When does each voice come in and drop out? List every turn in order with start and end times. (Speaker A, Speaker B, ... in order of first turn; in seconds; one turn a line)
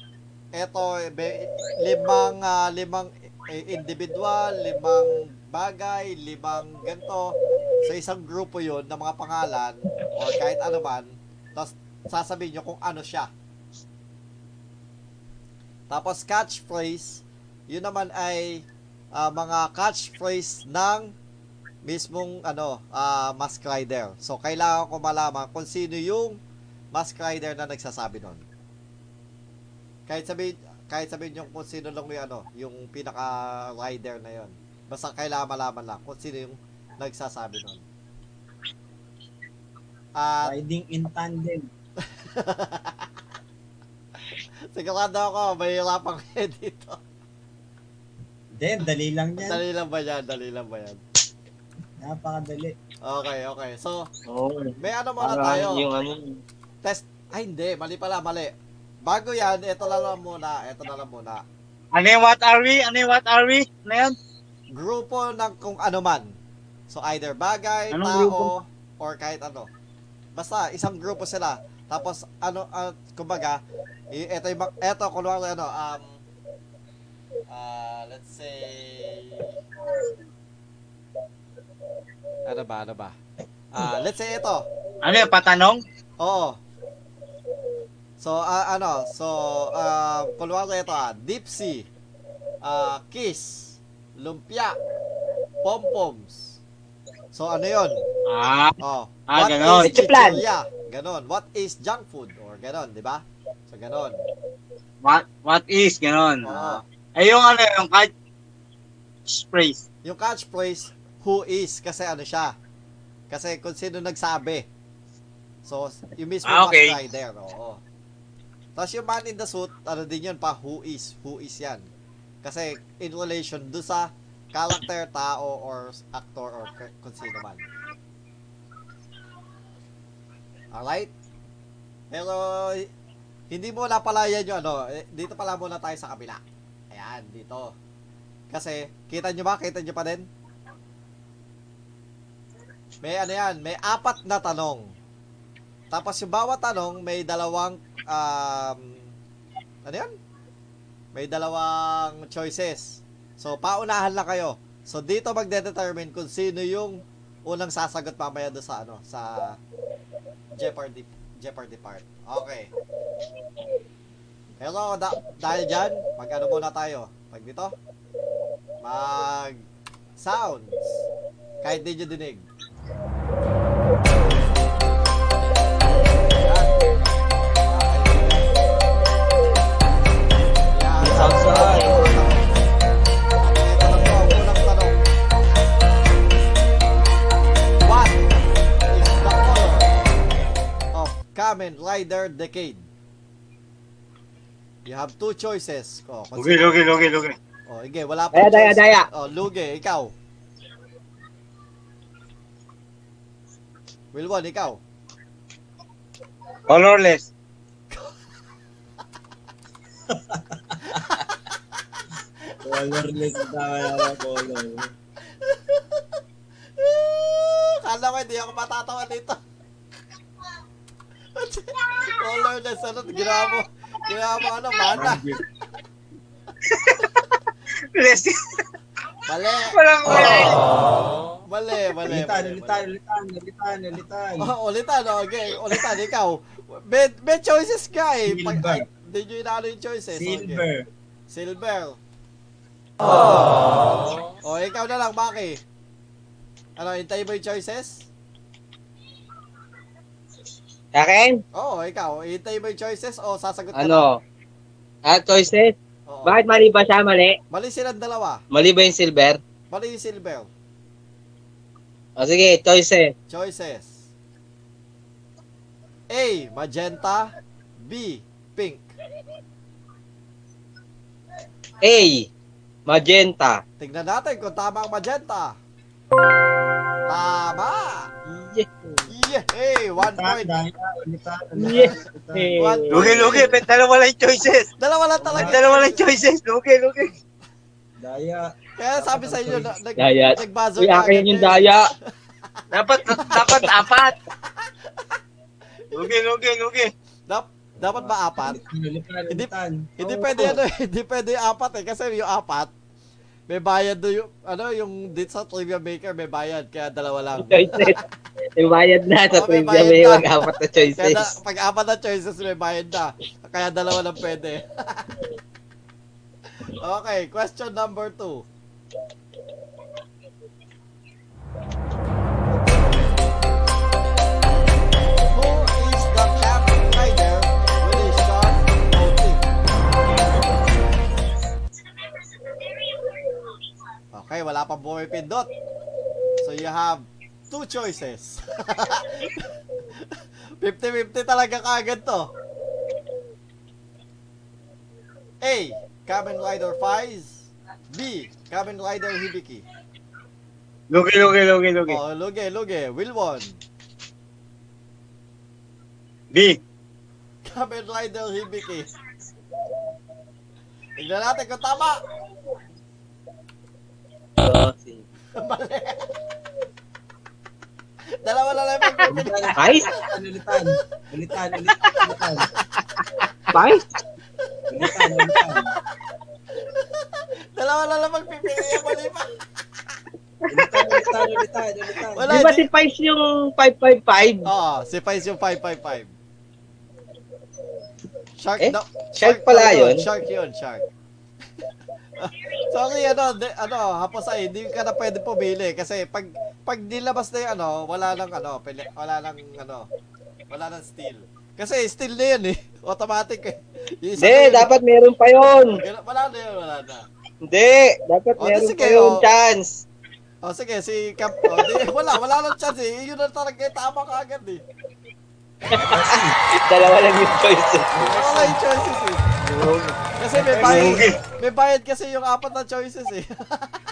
Speaker A: 0.6-13.3
Speaker A: 15.9-21.1
Speaker A: 21.8-26.4
Speaker A: 26.9-28.4
Speaker A: 30.1-37.8
Speaker A: 40.2-40.5
Speaker B: 40.4-41.7
Speaker A: 42.0-43.1
Speaker A: 44.7-47.0
Speaker B: 48.5-49.6
Speaker A: 49.4-51.0
Speaker B: 52.0-52.8
Speaker A: 53.0-54.1
Speaker C: 54.3-56.4
Speaker A: 54.8-55.8
Speaker A: 56.8-58.5
Speaker A: 59.0-61.4
Speaker D: 61.9-64.1
Speaker A: 64.7-66.3
Speaker A: 66.9-69.7
Speaker D: 67.9-68.5
Speaker A: 70.3-73.6
Speaker A: 74.1-76.1
Speaker A: 77.5-79.6
Speaker A: 82.5-83.2
Speaker A: 83.7-84.7
Speaker D: 85.0-85.8
Speaker A: 86.2-86.6
Speaker A: 88.2-91.9
Speaker A: 92.6-94.8
Speaker A: 95.6-96.6
Speaker A: 97.3-98.0
Speaker D: 98.3-98.8
Speaker A: 98.8-104.2
Speaker D: 99.3-99.9
Speaker C: 99.8-100.4
Speaker D: 105.0-108.1
Speaker A: 106.4-106.8
Speaker D: 109.3-109.8
Speaker A: 110.0-112.5
Speaker A: 113.3-114.7
Speaker A: 115.6-117.8
Speaker D: 116.4-117.0
Speaker A: 118.8-121.9
Speaker A: 122.4-127.6
Speaker A: 130.7-131.1
Speaker A: 132.1-132.9
Speaker A: 133.5-137.7
Speaker A: 138.5-140.3
Speaker A: 143.0-144.9
Speaker A: 145.9-149.1
Speaker A: 149.8-150.1
Speaker A: 151.1-159.6
Speaker A: 160.6-162.7
Speaker A: 164.6-167.7
Speaker A: 168.8-169.6
Speaker A: 170.2-171.0
Speaker A: 171.6-172.4
Speaker A: 176.4-176.7
Speaker A: 177.6-178.5
Speaker A: 180.7-182.7
Speaker C: 181.0-181.9
Speaker A: 183.4-185.1
Speaker A: 187.8-188.3
Speaker A: 188.9-189.9
Speaker A: 190.9-192.8
Speaker A: 194.8-196.9
Speaker D: 196.4-197.3
Speaker A: 197.7-200.1
Speaker C: 198.3-199.1
Speaker A: 204.1-204.8
Speaker D: 206.7-207.3
Speaker B: 210.1-211.0
Speaker A: 210.9-211.3
Speaker B: 212.6-214.9
Speaker A: 215.4-216.2
Speaker A: 216.8-219.4
Speaker A: 221.3-225.2
Speaker B: 224.9-225.4
Speaker D: 226.7-227.0
Speaker D: 227.9-228.6
Speaker A: 229.3-230.5
Speaker D: 229.7-230.6
Speaker A: 231.4-232.8
Speaker B: 232.1-234.5
Speaker A: 234.4-240.6
Speaker B: 238.2-238.8
Speaker B: 240.1-240.9
Speaker A: 241.3-242.0
Speaker A: 244.4-245.6
Speaker A: 246.8-248.1
Speaker C: 250.9-251.4
Speaker A: 251.5-254.1
Speaker C: 253.7-254.2
Speaker C: 255.1-255.7
Speaker A: 256.1-256.4
Speaker C: 256.2-257.4
Speaker A: 257.5-258.4
Speaker C: 258.5-259.4
Speaker A: 259.7-260.5
Speaker C: 262.2-263.1
Speaker A: 263.3-264.0
Speaker A: 266.1-268.9
Speaker C: 271.8-272.3
Speaker C: 272.9-273.6
Speaker A: 273.8-275.6
Speaker A: 277.1-278.1
Speaker C: 278.2-279.1
Speaker A: 279.1-280.5
Speaker B: 280.0-282.6
Speaker C: 281.6-283.1
Speaker A: 282.6-283.5
Speaker D: 282.9-284.7
Speaker A: 284.8-286.1
Speaker D: 285.3-287.1
Speaker B: 288.0-289.7
Speaker A: 288.8-291.8
Speaker C: 290.0-291.9
Speaker D: 292.7-294.1
Speaker C: 293.3-293.6
Speaker D: 295.9-296.9
Speaker A: 297.3-298.6
Speaker B: 298.4-299.9
Speaker A: 299.3-302.7
Speaker C: 300.1-300.5
Speaker A: 303.5-308.0
Speaker C: 307.4-308.0
Speaker C: 308.6-311.3
Speaker A: 309.3-310.3
Speaker A: 310.9-315.1
Speaker A: 316.8-318.4
Speaker A: 325.3-329.5
Speaker A: 334.1-335.5
Speaker A: 336.4-339.5
Speaker A: 340.6-342.3
Speaker A: 345.4-349.6
Speaker D: 350.9-352.0
Speaker A: 351.9-353.6
Speaker D: 356.3-356.6
Speaker A: 357.4-358.9
Speaker A: 361.0-362.0
Speaker C: 364.4-365.0
Speaker A: 365.4-366.1
Speaker A: 368.2-369.9
Speaker B: 369.0-372.5
Speaker C: 369.6-369.9
Speaker A: 371.8-372.2
Speaker C: 373.5-373.8
Speaker B: 374.7-375.7
Speaker A: 374.8-375.3
Speaker A: 377.5-379.3
Speaker B: 380.5-382.3
Speaker C: 380.6-381.1
Speaker A: 382.1-382.7
Speaker C: 382.3-384.5
Speaker A: 384.4-386.1
Speaker A: 388.4-390.9
Speaker C: 388.6-390.0
Speaker A: 392.2-399.9
Speaker A: 400.5-404.7
Speaker C: 404.2-405.8
Speaker A: 405.6-407.1
Speaker C: 407.4-409.9
Speaker A: 408.4-409.2
Speaker A: 410.4-414.6
Speaker B: 415.7-416.4
Speaker C: 415.8-418.2
Speaker B: 417.9-418.5
Speaker A: 418.1-419.2
Speaker C: 419.4-420.0
Speaker A: 420.2-423.8
Speaker D: 420.5-421.2